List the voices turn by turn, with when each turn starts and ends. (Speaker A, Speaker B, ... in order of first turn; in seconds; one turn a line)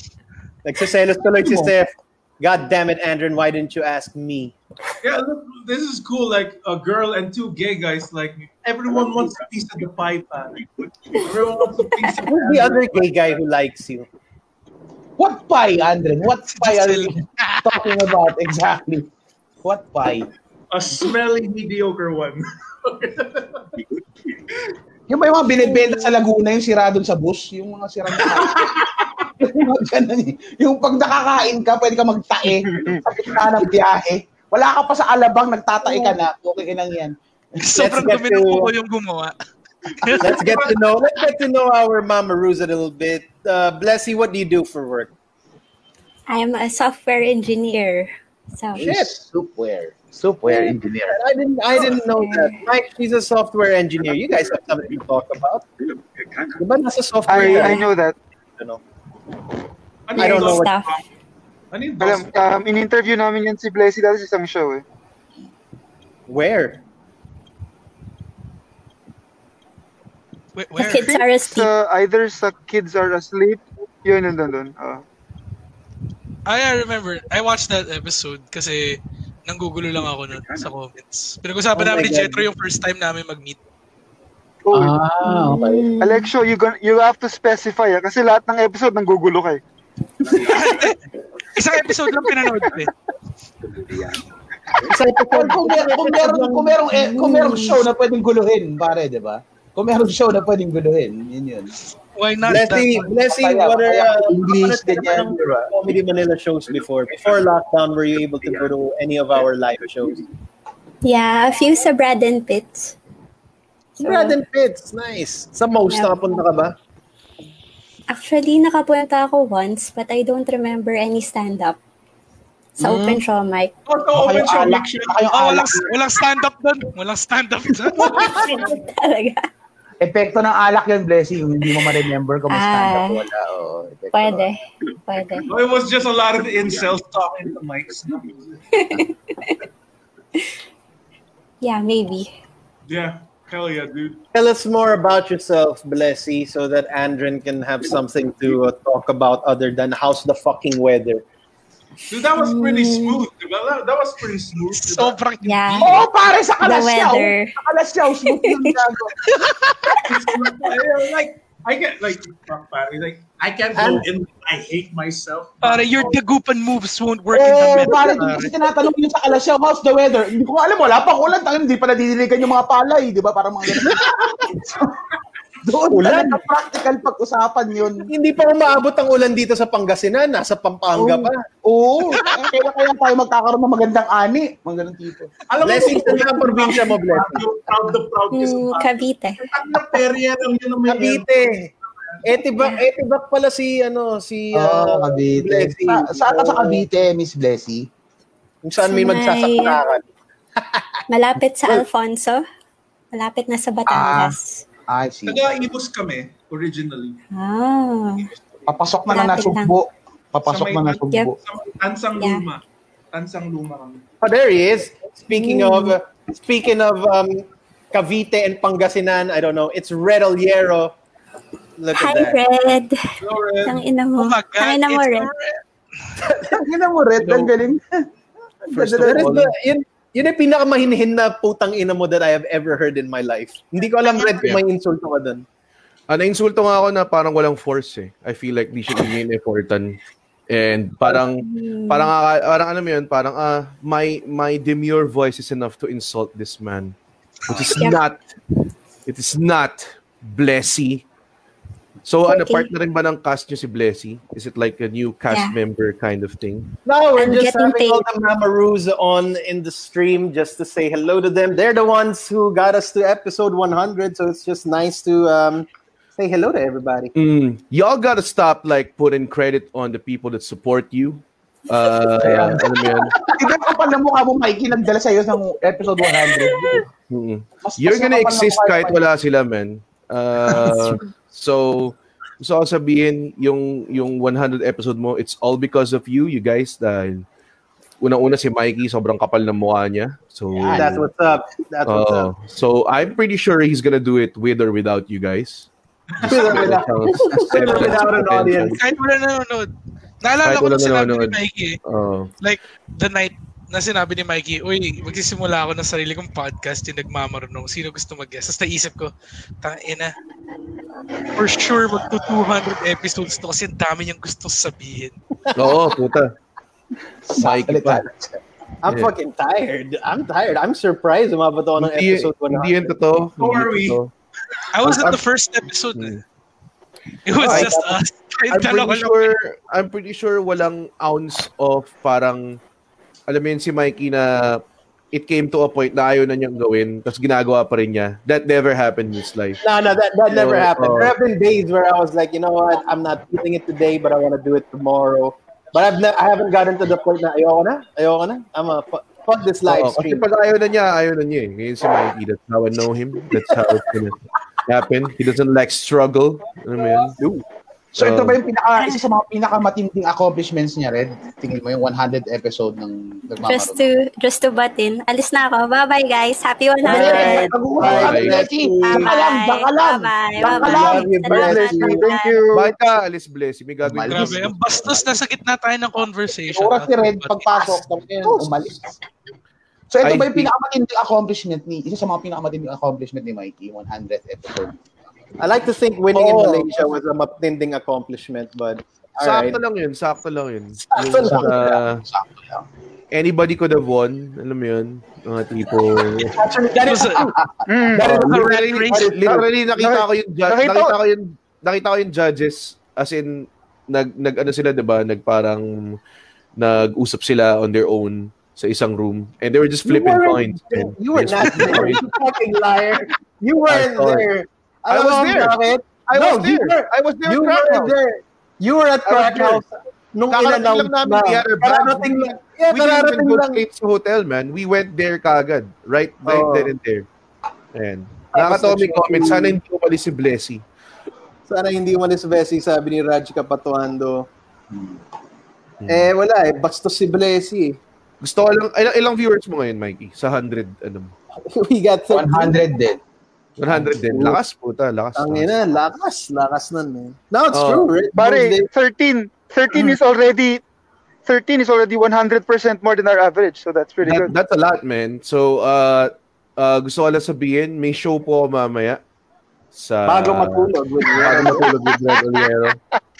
Speaker A: 0.6-4.5
Speaker B: 5.0-13.1
Speaker A: 12.3-14.1
Speaker C: 15.2-19.1
Speaker D: 16.5-17.8
Speaker C: 19.6-20.3
Speaker B: 20.7-23.6
Speaker C: 25.1-28.9
Speaker B: 28.4-28.8
Speaker C: 29.4-37.1
Speaker D: 37.6-39.3
Speaker A: 37.8-38.7
Speaker D: 40.0-40.5
Speaker A: 40.2-45.1
Speaker E: 46.3-48.9
Speaker C: 48.7-51.1
Speaker A: 48.8-49.1
Speaker A: 50.4-55.7
Speaker E: 52.0-52.6
Speaker A: 56.5-57.8
Speaker F: 57.3-58.1
Speaker E: 57.4-57.8
Speaker B: 60.1-61.0
Speaker A: 60.1-60.7
Speaker E: 60.2-60.9
Speaker B: 61.7-62.3
Speaker F: 62.0-64.8
Speaker A: 66.3-66.8
Speaker D: 70.5-71.0
Speaker E: 70.8-71.7
Speaker F: 70.9-75.0
Speaker D: 76.5-83.6
Speaker A: 81.7-82.5
Speaker F: 84.7-85.0
Speaker C: 84.7-86.0
Speaker E: 85.2-86.3
Speaker F: 86.0-89.6
Speaker D: 90.4-91.0
Speaker D: 91.5-92.9
Speaker A: 94.8-96.8
Speaker C: 95.3-101.8
Speaker E: 96.9-97.8
Speaker D: 102.1-103.1
Speaker A: 102.4-110.2
Speaker C: 103.1-105.4
Speaker E: 111.0-112.9
Speaker E: 114.0-114.4
Speaker A: 114.0-116.8
Speaker E: 115.9-116.4
Speaker E: 118.1-121.8
Speaker C: 122.8-123.2
Speaker E: 122.8-123.7
Speaker B: 123.8-125.2
Speaker C: 124.1-125.9
Speaker D: 125.3-128.4
Speaker E: 128.2-129.5
Speaker B: 128.2-128.8
Speaker C: 130.0-134.5
Speaker E: 132.5-133.2
Speaker E: 134.1-135.5
Speaker B: 135.4-138.6
Speaker E: 138.7-139.6
Speaker E: 141.6-142.3
Speaker B: 142.9-144.2
Speaker A: 144.3-151.2
Speaker B: 152.1-155.2
Speaker E: 152.3-153.2
Speaker D: 154.7-156.0
Speaker E: 155.4-156.1
Speaker C: 155.8-159.1
Speaker E: 156.6-157.5
Speaker E: 158.2-158.8
Speaker B: 160.0-166.2
Speaker A: 163.7-164.1
Speaker D: 165.6-168.5
Speaker A: 167.5-168.1
Speaker C: 167.5-174.6
Speaker C: 175.6-178.1
Speaker A: 175.9-176.4
Speaker A: 178.1-181.4
Speaker C: 181.6-185.3
Speaker B: 185.5-191.5
Speaker A: 185.6-187.4
Speaker E: 188.3-189.4
Speaker A: 190.9-191.7
Speaker A: 192.2-196.8
Speaker C: 194.5-197.9
Speaker A: 198.6-200.1
Speaker E: 198.8-199.8
Speaker A: 200.6-201.0
Speaker E: 201.1-202.4
Speaker E: 203.1-204.6
Speaker C: 203.9-204.3
Speaker C: 204.9-205.5
Speaker B: 205.2-207.2
Speaker E: 207.3-208.3
Speaker C: 208.7-211.4
Speaker E: 209.1-209.7
Speaker B: 210.4-214.0
Speaker E: 211.1-211.3
Speaker E: 212.2-212.4
Speaker A: 214.2-220.9
Speaker E: 215.3-215.9
Speaker A: 221.8-222.4
Speaker E: 221.9-223.0
Speaker B: 223.2-223.8
Speaker E: 223.6-225.3
Speaker D: 224.2-225.5
Speaker C: 226.5-228.0
Speaker C: 228.7-229.5
Speaker G: 228.7-229.5
Speaker A: 229.0-235.4
Speaker G: 236.1-240.0
Speaker G: 240.5-246.9
Speaker E: 241.1-242.1
Speaker G: 247.5-248.2
Speaker E: 247.5-248.0
Speaker G: 249.1-251.0
Speaker G: 252.0-256.7
Speaker E: 252.2-252.7
Speaker E: 255.3-255.6
Speaker A: 256.8-267.1
Speaker E: 257.1-258.0
Speaker G: 267.1-273.1
Speaker C: 271.8-276.9
Speaker G: 277.1-287.2
Speaker C: 277.6-279.0
Speaker C: 280.5-280.9
Speaker G: 288.0-291.1
Speaker C: 290.6-290.9
Speaker A: 290.7-292.3
Speaker G: 291.8-295.7
Speaker B: 296.1-296.8
Speaker A: 296.2-298.8
Speaker G: 296.2-298.8
Speaker D: 298.7-299.7
Speaker D: 300.2-301.8
Speaker G: 300.4-302.3
Speaker D: 302.4-310.1
Speaker D: 311.3-315.1
Speaker G: 315.5-316.3
Speaker C: 317.2-318.4
Speaker G: 317.4-318.1
Speaker A: 318.8-322.9
Speaker G: 318.9-319.1
Speaker G: 321.8-324.1
Speaker B: 323.4-324.0
Speaker D: 324.7-326.2
Speaker G: 324.8-325.2
Speaker G: 325.9-326.2
Speaker D: 327.2-329.3
Speaker A: 327.4-327.9
Speaker G: 327.4-327.8
Speaker G: 328.5-332.6
Speaker G: 333.3-339.6
Speaker A: 339.6-350.2
Speaker G: 340.3-341.1
Speaker G: 349.6-357.2
Speaker C: 357.9-363.9
Speaker G: 358.0-358.4
Speaker E: 363.4-367.6
Speaker A: 366.8-369.2
Speaker C: 366.8-371.1
Speaker G: 367.8-368.5
Speaker E: 368.8-372.5
Speaker A: 370.4-372.1
Speaker F: 371.3-372.7
Speaker G: 372.5-374.7
Speaker C: 373.8-375.1
Speaker D: 374.1-377.8
Speaker C: 376.5-379.0
Speaker C: 379.9-384.8
Speaker G: 380.0-380.5
Speaker A: 385.4-389.6
Speaker G: 386.1-386.7
Speaker G: 389.2-392.0
Speaker A: 390.9-391.8
Speaker C: 391.0-392.6
Speaker G: 393.1-396.4
Speaker A: 396.4-397.0
Speaker C: 396.6-397.5
Speaker D: 396.8-397.2
Speaker F: 397.7-398.4
Speaker G: 398.0-406.0
Speaker D: 398.0-399.1
Speaker A: 398.9-399.4
Speaker F: 399.0-400.9
Speaker G: 406.6-412.0
Speaker A: 409.8-423.6
Speaker G: 413.7-414.3
Speaker G: 414.9-417.9
Speaker G: 419.1-419.6
Speaker G: 420.3-427.1
Speaker A: 426.2-426.7
Speaker G: 427.7-430.6
Speaker A: 428.3-429.6
Speaker A: 431.4-434.3
Speaker G: 435.8-436.1
Speaker A: 435.9-437.8
Speaker G: 438.2-441.1
Speaker A: 441.5-442.6
Speaker C: 442.1-443.0
Speaker G: 443.6-445.5
Speaker A: 443.7-444.4
Speaker A: 445.1-448.7
Speaker G: 447.5-447.9
Speaker F: 448.1-450.6
Speaker F: 451.2-454.3
Speaker G: 454.0-459.0
Speaker G: 459.7-462.8
Speaker A: 460.1-461.7